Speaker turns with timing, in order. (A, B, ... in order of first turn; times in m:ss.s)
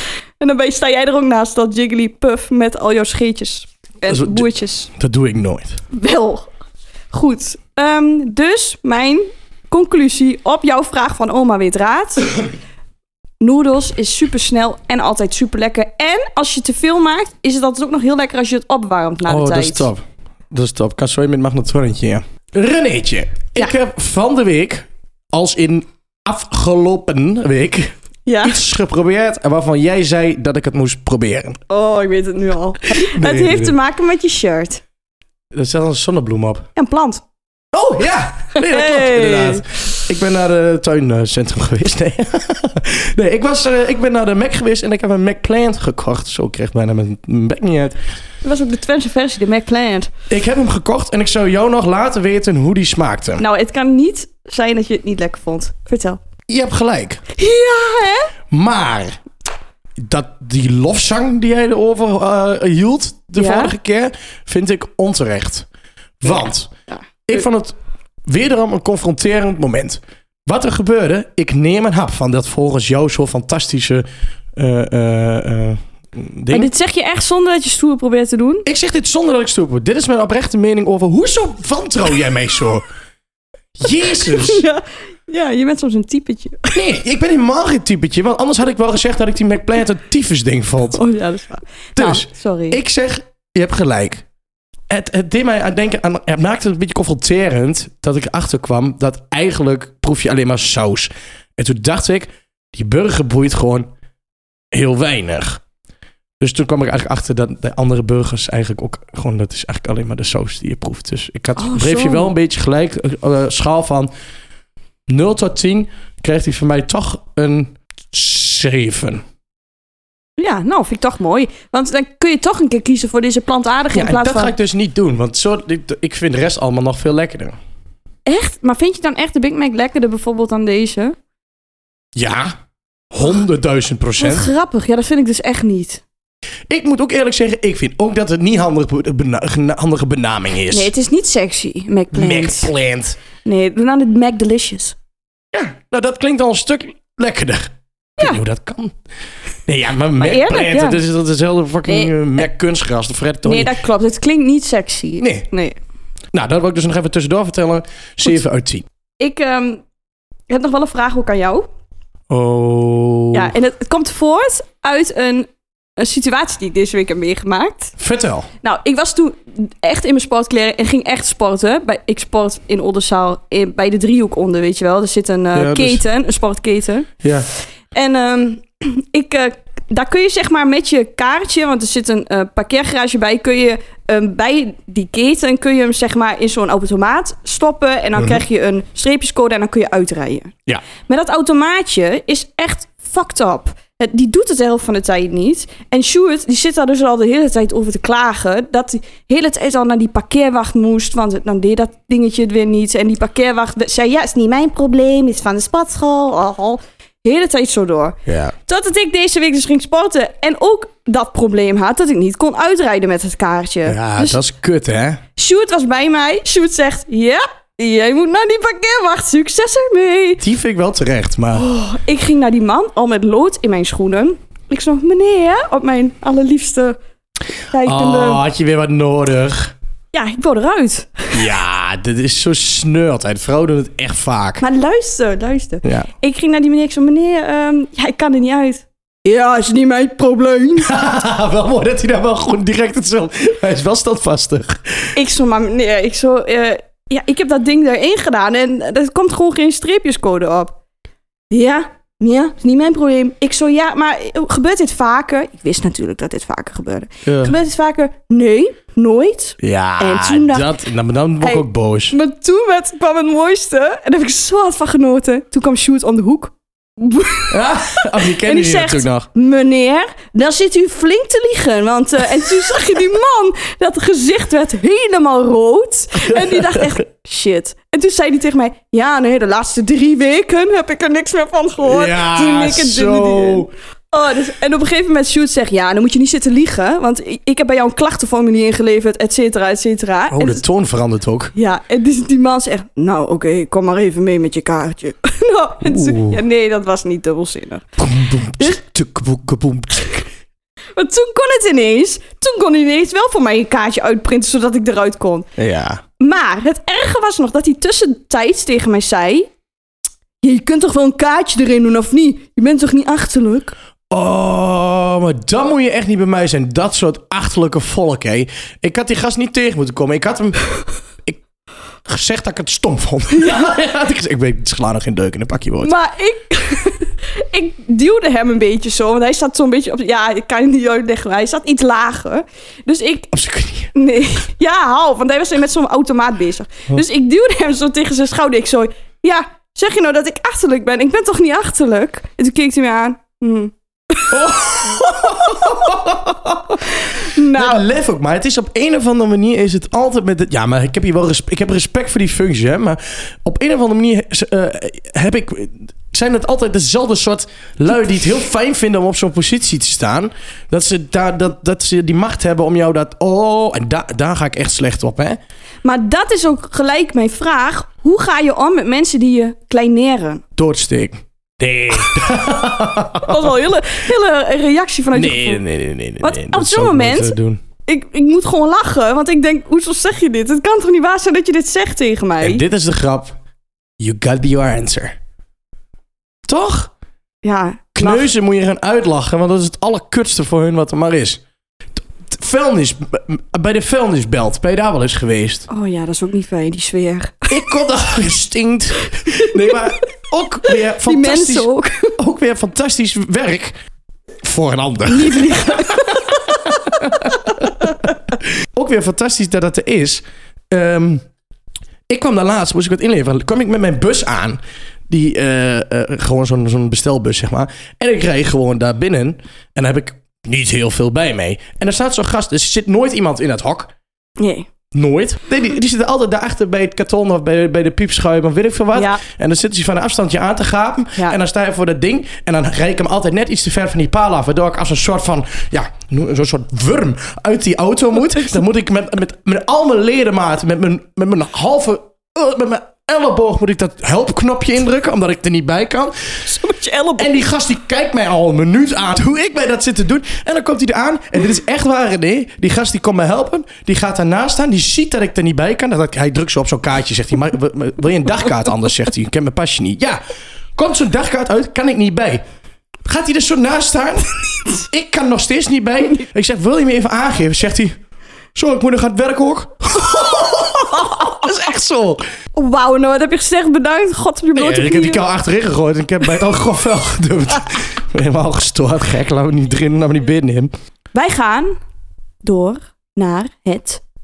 0:00.4-0:04.9 A
0:04.1-0:05.8 B
0:05.9-0:06.5 A
0:07.1-0:12.4 A
0:13.4-0:19.9 A
0:19.3-0:31.6 B
0:28.2-0:28.6 A
0:31.7-0:34.8 A
0:32.9-0:33.8 B
0:35.5-0:36.7 B
0:36.8-0:37.2 A
0:37.7-0:48.0 B
0:38.5-0:39.7 A
0:48.4-0:50.1 A
0:50.3-0:53.4 B
0:53.4-0:56.2 A
0:56.5-0:57.2 B
0:57.3-0:58.3 A
0:58.5-0:59.2 B
1:00.0-1:05.7 B
1:03.4-1:03.7 A
1:06.2-1:06.7 B
1:07.3-1:14.0 B
1:14.6-1:16.7 B
1:16.5-1:18.6 A
1:18.6-1:22.8 B
1:23.8-1:24.6 B
1:24.1-1:26.8 A
1:26.7-1:31.0 B
1:30.9-1:32.8 A
1:32.0-1:34.2 B
1:34.9-1:43.9 B
1:44.7-1:45.6 B
1:46.4-1:54.1 B
1:51.6-1:52.3 A
1:55.1-1:59.2 B
2:00.4-2:04.5 A
2:03.9-2:07.6 B
2:08.2-2:11.2 A
2:12.1-2:12.5 B
2:13.1-2:14.5 B
2:14.2-2:16.0 A
2:16.7-2:20.9 B
2:20.7-2:22.7 A
2:22.1-2:23.2 B
2:23.4-2:25.0 A
2:25.5-2:28.9 B
2:29.6-2:33.7 B
2:30.2-2:31.0 A
2:31.9-2:32.1 A
2:33.4-2:35.8 A
2:35.2-2:35.5 B
2:36.3-2:38.8 B
2:39.2-2:39.8 A
2:40.5-2:41.7 A
2:42.3-2:43.5 B
2:43.3-2:47.9 A
2:48.0-2:48.5 B
2:48.6-2:57.1 A
2:55.5-2:56.0 B
2:57.9-3:10.5 A
3:11.0-3:34.4 A
3:28.3-3:28.5 B
3:33.8-3:35.2 B
3:35.4-3:40.4 A
3:40.4-3:41.6 B
3:41.5-3:47.0 A
3:47.7-3:48.4 A
3:47.8-3:49.7 B
3:50.1-3:51.5 A
3:51.3-3:54.6 B
3:54.6-4:00.9 A
3:55.8-3:56.1 B
4:00.8-4:05.1 B
4:05.1-4:10.8 A
4:11.5-4:20.8 A
4:17.2-4:17.5 B
4:19.6-4:22.2 B
4:21.4-4:50.6 A
4:27.5-4:29.3 B
4:36.2-4:37.0 B
4:41.8-4:43.7 B
4:50.3-4:51.5 B
4:51.5-4:57.8 A
4:55.8-4:56.4 B
4:58.0-5:00.2 B
5:01.0-5:05.5 A
5:05.6-5:06.0 B
5:06.2-5:09.5 A
5:10.4-5:13.7 A
5:14.1-5:20.6 B
5:22.0-5:25.9 B
5:23.3-5:23.7 A
5:25.8-5:33.3 A
5:33.3-5:33.9 B
5:33.9-5:44.4 A
5:44.3-5:46.8 B
5:45.1-5:45.7 A
5:46.8-5:47.8 A
5:47.4-6:05.4 B
6:05.8-6:10.4 A
6:10.6-6:13.5 B
6:13.2-6:15.6 A
6:15.1-6:17.6 B
6:16.2-6:17.3 A
6:17.8-6:22.6 A
6:22.4-6:23.3 B
6:24.0-6:25.1 B
6:26.5-6:26.9 B
6:27.4-6:28.3 A
6:28.0-6:31.4 B
6:32.2-6:35.7 B
6:35.7-6:37.5 A
6:37.5-6:43.7 B
6:39.3-6:39.8 A
6:41.0-6:42.2 A
6:44.4-6:47.9 B
6:45.1-6:47.7 A
6:48.7-6:51.2 B
6:52.1-7:03.9 B
7:04.4-7:04.7 A
7:04.9-7:26.3 B
7:08.9-7:09.2 A
7:26.4-7:27.4 A
7:27.2-7:40.2 B
7:40.8-7:42.4 B
7:43.0-7:47.9 B
7:48.5-7:52.2 B
7:50.2-7:51.3 A
7:52.5-7:55.2 A
7:54.6-8:00.7 B
8:01.1-8:01.8 A
8:02.4-8:04.0 A